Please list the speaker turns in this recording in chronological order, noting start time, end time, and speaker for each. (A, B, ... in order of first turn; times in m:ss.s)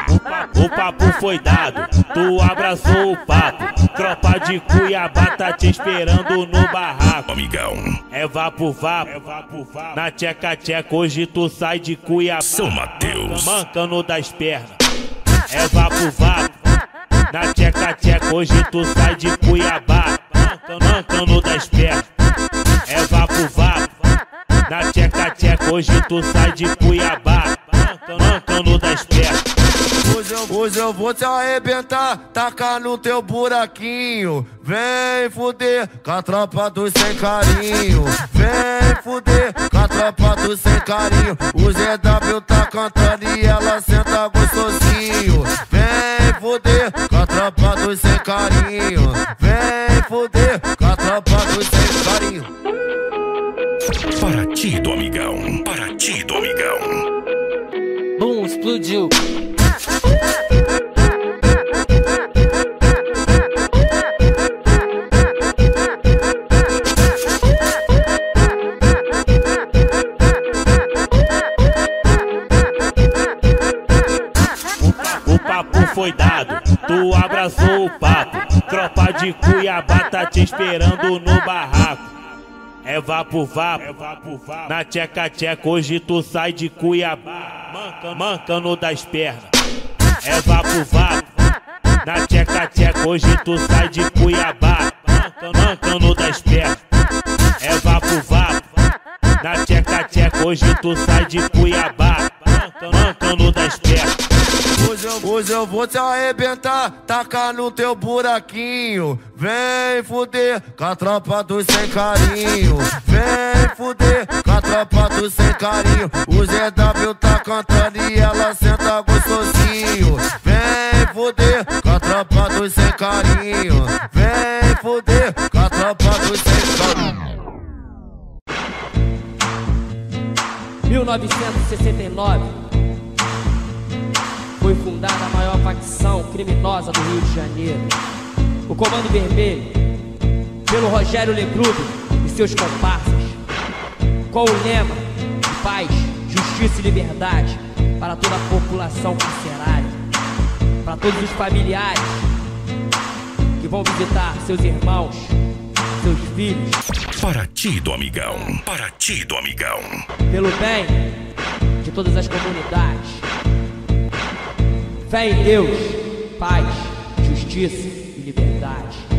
0:00.2-0:07.2 A
0:07.3-0:08.0 B
0:08.1-0:14.8 A
0:12.4-0:13.6 B
0:15.5-0:16.5 A
0:17.3-0:22.0 A
0:22.9-0:23.9 A
0:24.7-0:29.4 A
0:30.0-0:52.5 C
0:54.2-0:57.0 B
1:15.0-1:22.0 A
1:22.9-1:29.5 A
1:30.2-1:31.3 A
1:32.0-1:36.8 A
1:37.6-1:38.7 A
1:39.4-1:44.1 A
1:44.8-2:07.1 C
2:10.9-2:12.5 D
2:14.6-2:17.9 D
2:18.7-2:19.8 D
2:20.7-2:23.4 D
2:24.3-2:30.0 D
2:30.8-2:32.3 D
2:33.6-2:35.4 D
2:36.0-2:36.8 D
2:37.1-2:40.0 B
2:40.3-2:41.1 D
2:41.8-2:43.3 D
2:45.1-2:49.1 D